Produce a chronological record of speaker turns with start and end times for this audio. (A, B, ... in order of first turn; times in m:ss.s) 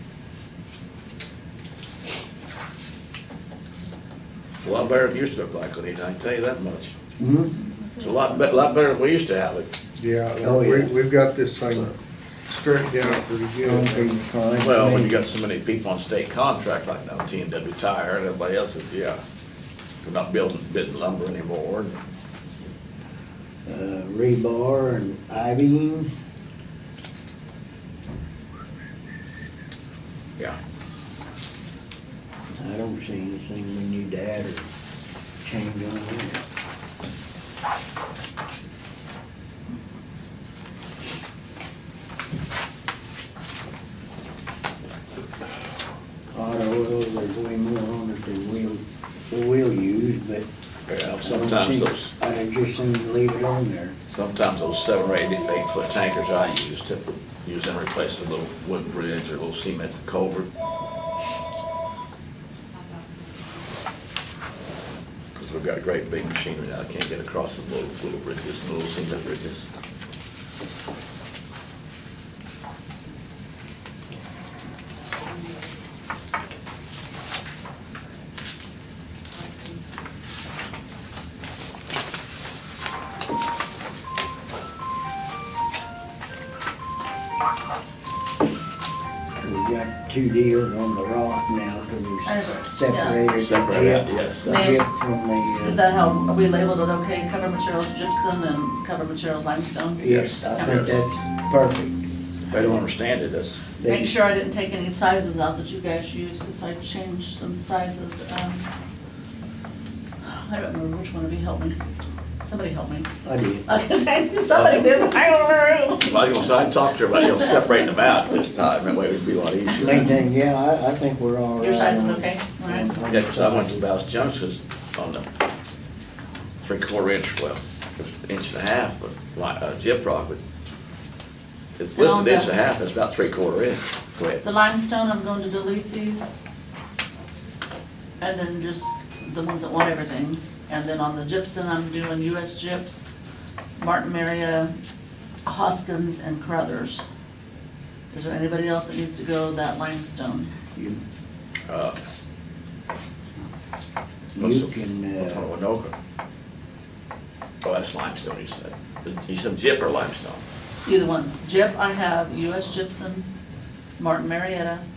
0:04.6-0:06.9 A
0:07.2-0:07.5 B
0:07.6-0:08.7 C
0:08.0-0:09.7 A
0:10.0-0:12.0 D
0:10.4-0:10.9 B
0:12.5-0:14.1 D
0:13.0-0:15.2 B
0:14.6-0:19.2 A
0:20.0-0:22.0 A
0:23.6-0:26.1 B
0:32.6-0:34.7 B
0:35.4-0:36.4 B
0:46.3-0:50.5 B
0:50.9-0:52.1 A
0:51.2-0:53.9 B
0:54.1-1:00.5 A
1:05.4-1:09.7 A
1:29.4-1:35.8 B
1:32.2-1:33.2 C
1:33.4-1:34.7 A
1:34.4-1:34.8 C
1:35.6-1:40.1 C
1:40.0-1:41.9 B
1:40.0-1:41.0 A
1:40.6-1:40.9 C
1:42.5-1:43.6 A
1:43.8-1:44.1 B
1:43.8-1:48.6 C
1:50.2-1:51.8 C
1:52.4-1:53.1 C
1:53.2-1:53.7 B
1:53.7-1:56.4 C
1:54.5-1:54.9 A
1:56.0-2:00.1 A
1:57.1-1:58.2 C
1:59.7-2:03.8 B
2:01.6-2:03.0 C
2:03.0-2:05.2 A
2:06.6-2:10.4 A
2:11.8-2:14.4 A
2:12.0-2:12.5 C
2:14.4-2:16.3 C
2:18.2-2:23.0 C
2:23.8-2:24.7 C
2:25.4-2:27.0 C
2:28.1-2:30.5 C
2:30.7-2:31.0 B
2:31.7-2:32.0 A
2:34.3-2:35.5 B
2:34.4-2:35.9 A
2:37.6-2:40.4 A
2:40.8-2:43.3 C
2:44.0-2:44.8 C